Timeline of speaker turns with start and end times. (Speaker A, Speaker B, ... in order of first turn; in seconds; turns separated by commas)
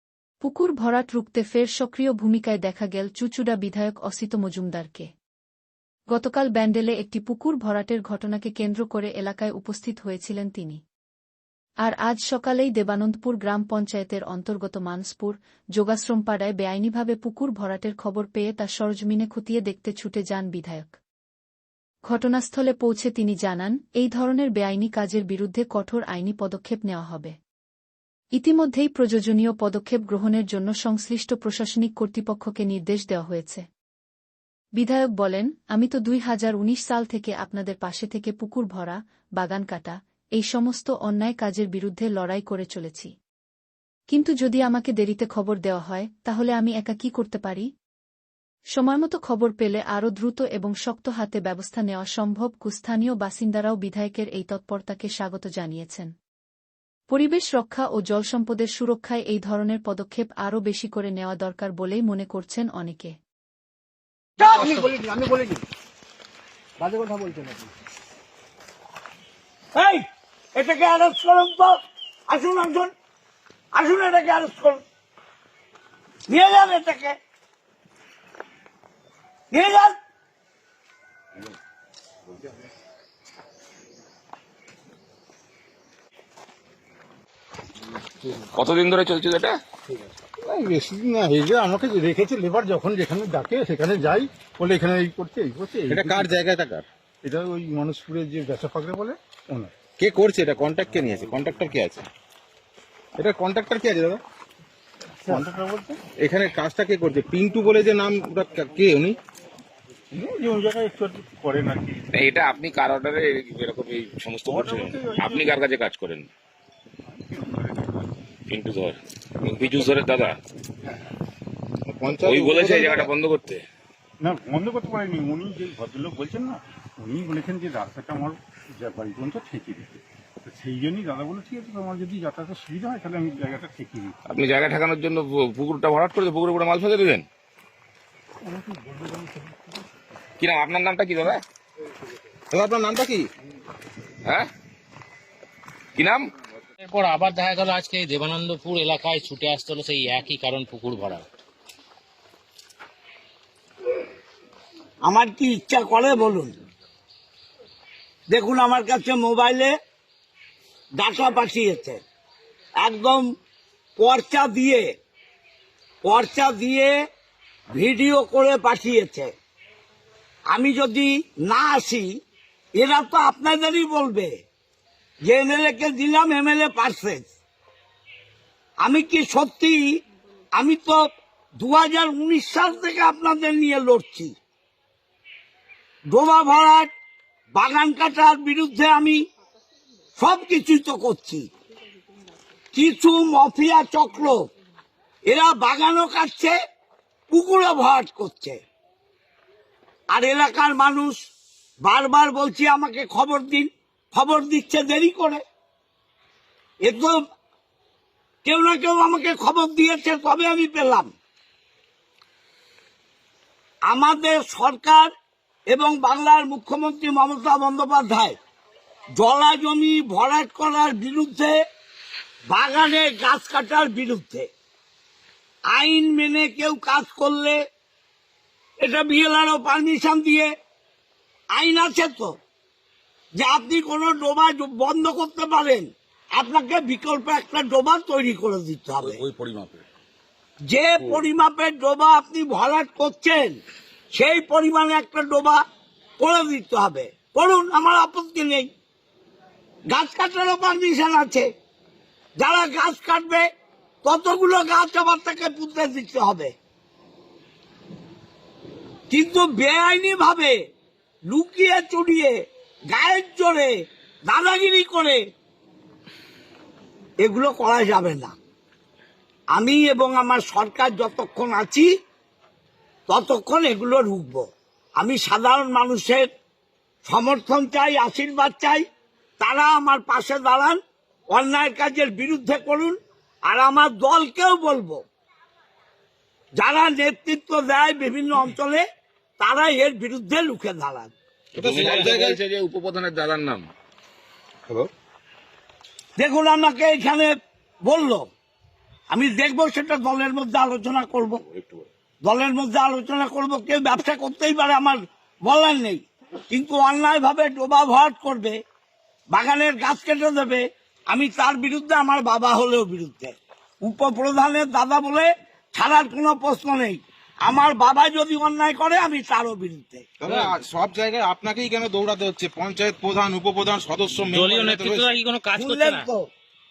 Speaker A: 0.4-5.1, Speaker A: 6.1-10.8, Speaker A: 11.8-21.0, Speaker A: 22.1-27.4, Speaker A: 28.4-33.7, Speaker A: 34.8-43.1, Speaker A: 44.1-47.7, Speaker A: 48.8-56.1, Speaker A: 57.1-63.2, Speaker B: 64.4-64.9, Speaker C: 64.8-65.4, Speaker C: 66.8-67.3, Speaker B: 69.8-72.9, Speaker B: 73.7-74.8, Speaker B: 76.3-77.2, Speaker B: 79.5-80.0, Speaker D: 88.2-89.6, Speaker C: 90.4-96.4, Speaker E: 95.9-96.8, Speaker C: 97.2-99.8, Speaker E: 100.0-102.0, Speaker E: 103.2-104.2, Speaker C: 105.2-106.0, Speaker E: 106.2-109.2, Speaker C: 110.1-112.0, Speaker D: 112.1-116.3, Speaker C: 114.5-115.5, Speaker C: 117.1-118.1, Speaker D: 118.5-120.4, Speaker E: 121.9-123.1, Speaker D: 122.2-123.6, Speaker C: 124.2-134.1, Speaker D: 134.3-137.2, Speaker C: 138.4-139.8, Speaker D: 140.4-141.4, Speaker E: 142.5-143.2, Speaker D: 146.0-146.2, Speaker F: 146.8-151.2, Speaker B: 155.1-156.6, Speaker B: 158.3-159.7, Speaker B: 161.0-162.0, Speaker B: 162.8-163.2, Speaker B: 164.0-164.9, Speaker B: 166.0-166.9, Speaker B: 167.7-169.3, Speaker B: 170.5-172.2, Speaker B: 172.8-174.4, Speaker B: 175.2-177.3, Speaker B: 178.8-179.8, Speaker B: 180.6-181.0, Speaker B: 181.6-184.3, Speaker B: 186.1-186.9, Speaker B: 187.5-189.2, Speaker B: 190.2-191.5, Speaker B: 192.7-194.5, Speaker B: 195.3-196.6, Speaker B: 197.3-198.6, Speaker B: 200.1-201.2, Speaker B: 201.8-205.4, Speaker B: 206.8-207.2, Speaker B: 208.4-211.1, Speaker B: 213.9-215.1, Speaker B: 215.7-218.4, Speaker B: 219.2-221.6, Speaker B: 222.5-224.5, Speaker B: 225.7-227.6, Speaker B: 228.8-230.5, Speaker B: 231.5-232.4, Speaker B: 233.4-239.2, Speaker F: 239.0-239.8, Speaker B: 240.7-243.6, Speaker B: 244.1-245.6, Speaker B: 246.2-248.7, Speaker B: 249.9-251.5, Speaker B: 252.4-253.5, Speaker B: 254.0-256.6, Speaker B: 259.1-260.6, Speaker B: 261.3-263.7, Speaker B: 264.2-265.2, Speaker B: 267.2-268.4, Speaker B: 269.5-271.9, Speaker B: 273.1-276.3, Speaker B: 277.1-278.9, Speaker B: 279.4-280.8, Speaker B: 281.3-285.0, Speaker B: 286.6-288.9, Speaker B: 289.4-291.1, Speaker D: 291.6-293.7, Speaker E: 291.6-292.4, Speaker F: 291.7-292.1, Speaker B: 296.2-297.3, Speaker B: 297.9-298.3, Speaker B: 299.1-301.4, Speaker B: 302.2-308.6, Speaker B: 309.3-320.1, Speaker E: 320.2-325.1, Speaker F: 324.2-326.1, Speaker B: 325.5-326.3